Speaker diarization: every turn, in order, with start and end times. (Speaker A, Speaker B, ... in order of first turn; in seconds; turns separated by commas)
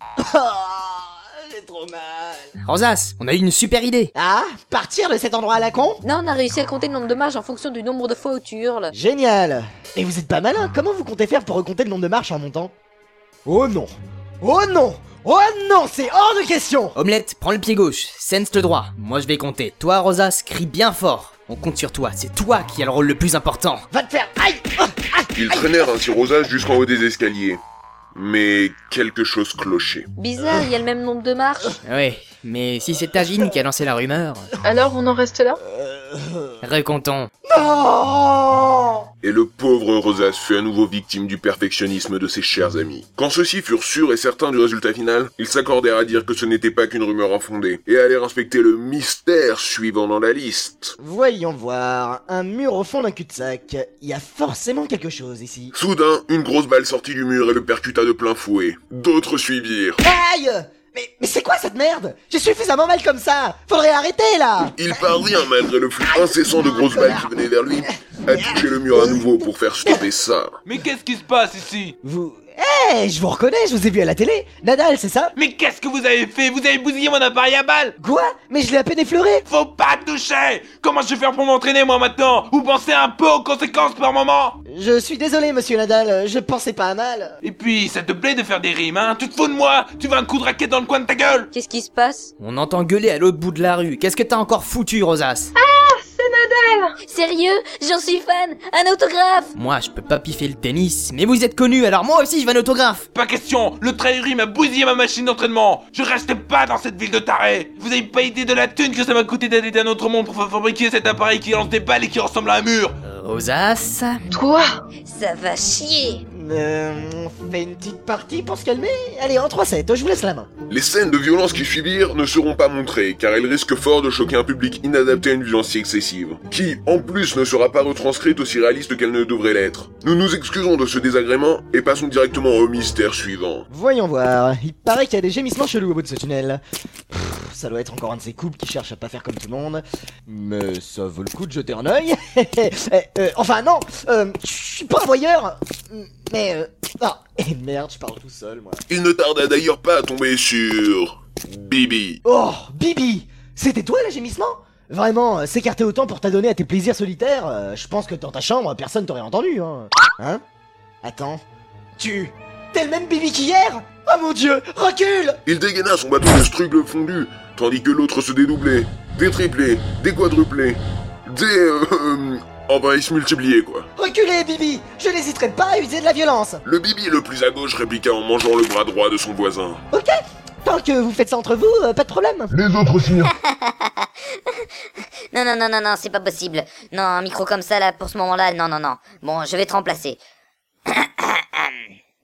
Speaker A: 0.2-2.5, Speaker B: 2.6-4.1, Speaker A: 4.1-6.0, Speaker C: 6.0-8.9, Speaker A: 8.9-12.7, Speaker A: 13.4-16.9, Speaker B: 16.9-23.9, Speaker A: 23.9-25.7, Speaker D: 25.3-27.6, Speaker D: 28.1-30.1, Speaker C: 30.2-31.7, Speaker B: 31.8-34.5, Speaker E: 34.6-35.6, Speaker A: 35.7-36.6, Speaker B: 36.6-37.3, Speaker A: 37.4-39.1, Speaker D: 39.2-50.9, Speaker A: 51.0-55.7, Speaker D: 55.7-60.0, Speaker A: 60.0-64.8, Speaker D: 64.8-70.6, Speaker A: 66.0-67.3, Speaker A: 68.3-69.2, Speaker F: 70.7-71.9, Speaker A: 72.0-75.3, Speaker F: 75.4-77.9, Speaker A: 78.0-79.4, Speaker F: 79.5-84.5, Speaker A: 84.7-87.4, Speaker F: 87.4-91.5, Speaker C: 91.5-92.3, Speaker B: 92.4-95.5, Speaker E: 95.5-96.9, Speaker C: 97.1-99.5, Speaker B: 99.5-103.0, Speaker F: 103.1-112.9, Speaker B: 113.0-114.2, Speaker E: 114.3-114.7, Speaker C: 115.1-116.2, Speaker A: 116.3-120.5, Speaker D: 120.7-133.6, Speaker A: 133.7-148.8, Speaker D: 148.9-152.2, Speaker A: 152.2-160.4, Speaker A: 161.0-161.4, Speaker A: 162.0-165.4, Speaker D: 165.4-173.9, Speaker A: 173.9-176.6, Speaker D: 176.6-179.8, Speaker A: 179.9-182.5, Speaker D: 182.5-183.3, Speaker G: 183.4-184.1, Speaker G: 185.3-190.2, Speaker G: 190.9-191.8